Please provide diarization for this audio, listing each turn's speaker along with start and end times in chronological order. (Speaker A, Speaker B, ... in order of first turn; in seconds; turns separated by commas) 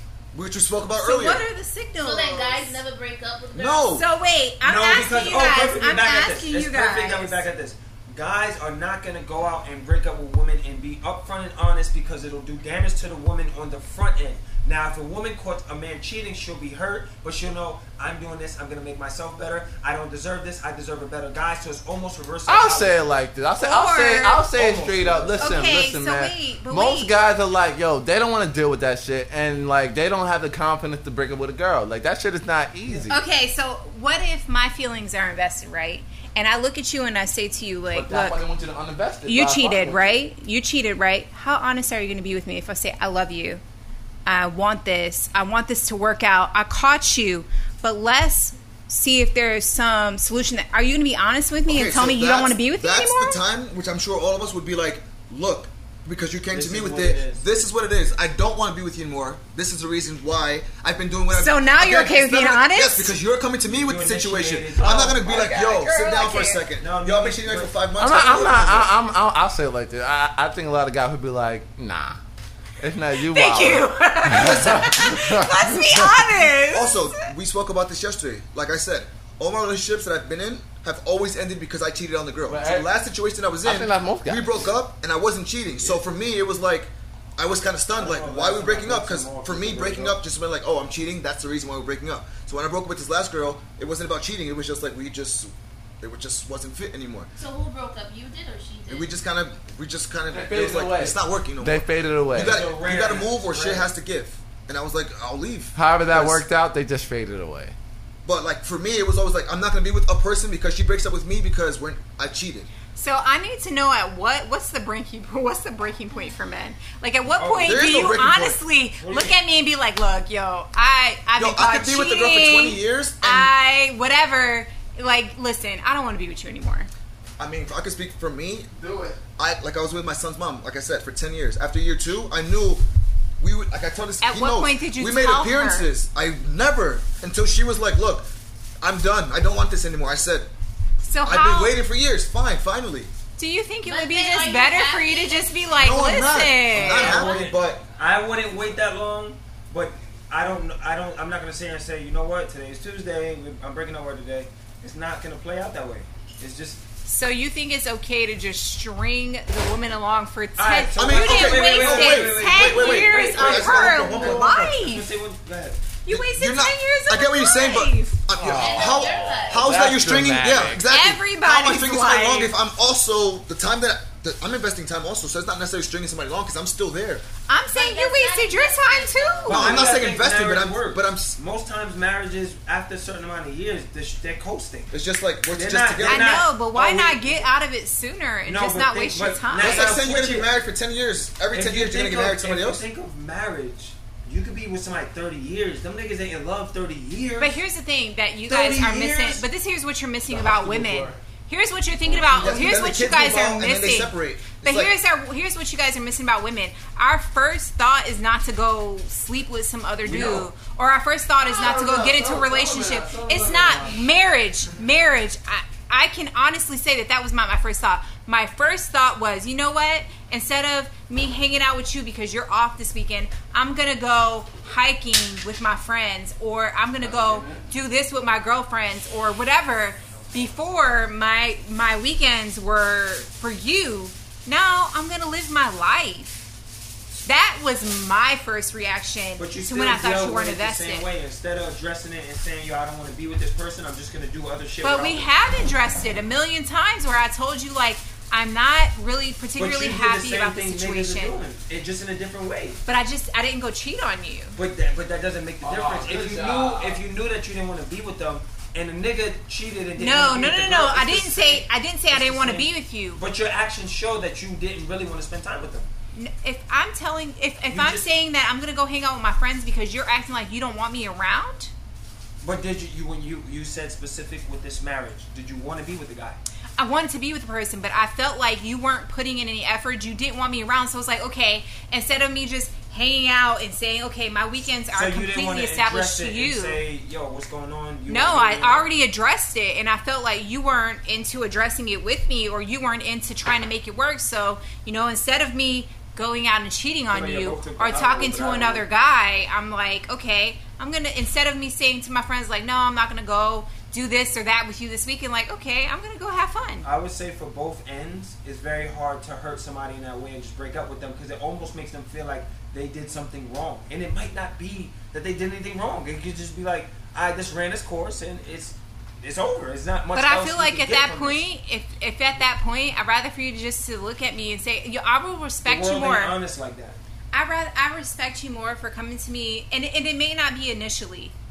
Speaker A: 0.3-1.4, Speaker B: 1.0-2.8, Speaker C: 2.0-4.0, Speaker A: 3.5-4.0, Speaker B: 3.9-7.4, Speaker D: 4.6-23.0, Speaker E: 22.4-33.2, Speaker B: 23.6-24.5, Speaker D: 24.6-25.4, Speaker B: 25.4-27.1, Speaker B: 33.1-38.4, Speaker E: 37.9-40.2, Speaker B: 39.2-43.6, Speaker B: 44.2-53.4, Speaker A: 51.7-68.9, Speaker D: 56.5-57.5, Speaker B: 61.3-63.1, Speaker D: 63.6-65.4, Speaker B: 65.1-66.6, Speaker D: 66.8-67.8, Speaker E: 68.0-72.2, Speaker E: 72.8-76.3, Speaker B: 73.2-77.3, Speaker A: 74.3-75.1, Speaker A: 76.6-97.3, Speaker E: 82.5-82.9, Speaker E: 83.6-84.7, Speaker D: 85.8-86.1, Speaker D: 87.9-90.2, Speaker C: 97.3-99.2, Speaker A: 98.9-106.4, Speaker E: 100.3-102.6, Speaker D: 102.3-103.9, Speaker E: 105.7-107.7, Speaker A: 108.2-112.7, Speaker B: 112.9-126.9, Speaker D: 117.3-118.0, Speaker A: 117.6-118.6, Speaker D: 119.0-119.4, Speaker A: 121.4-123.5, Speaker A: 127.4-128.7, Speaker E: 128.8-129.2, Speaker A: 129.4-132.8, Speaker A: 133.4-138.3, Speaker B: 134.2-135.9, Speaker A: 138.8-140.5, Speaker B: 141.0-141.8, Speaker A: 141.2-143.1, Speaker B: 143.4-147.3, Speaker C: 143.8-145.7, Speaker A: 145.7-147.9, Speaker D: 146.7-156.8, Speaker B: 157.0-165.1, Speaker D: 160.6-166.0, Speaker A: 160.9-164.7, Speaker B: 166.0-168.2, Speaker A: 166.1-177.2, Speaker E: 168.3-170.8, Speaker C: 168.5-169.9, Speaker B: 170.8-172.5, Speaker B: 177.5-179.8, Speaker C: 177.7-179.8, Speaker D: 179.5-184.9, Speaker A: 179.5-181.4, Speaker A: 184.9-186.4, Speaker D: 185.5-187.5, Speaker B: 186.0-190.0, Speaker D: 188.4-190.5, Speaker A: 189.5-192.8, Speaker D: 191.5-197.6, Speaker B: 197.4-236.4, Speaker D: 198.5-199.4, Speaker D: 200.4-201.1, Speaker E: 200.5-201.0, Speaker D: 202.1-202.5, Speaker A: 202.2-204.9, Speaker D: 210.0-210.5, Speaker E: 211.4-214.0, Speaker E: 227.0-227.6, Speaker B: 237.2-241.1, Speaker D: 239.4-245.4, Speaker B: 244.8-251.4, Speaker D: 249.6-252.8, Speaker B: 252.8-254.6, Speaker D: 254.6-265.9, Speaker E: 255.6-257.0, Speaker B: 259.9-263.2, Speaker B: 266.1-271.7, Speaker D: 267.7-268.1, Speaker D: 272.4-276.4, Speaker B: 276.8-286.8, Speaker D: 284.9-288.9, Speaker B: 288.1-306.9, Speaker D: 297.1-298.8, Speaker D: 306.8-321.4, Speaker B: 320.1-326.4, Speaker D: 325.6-327.0, Speaker B: 327.3-331.3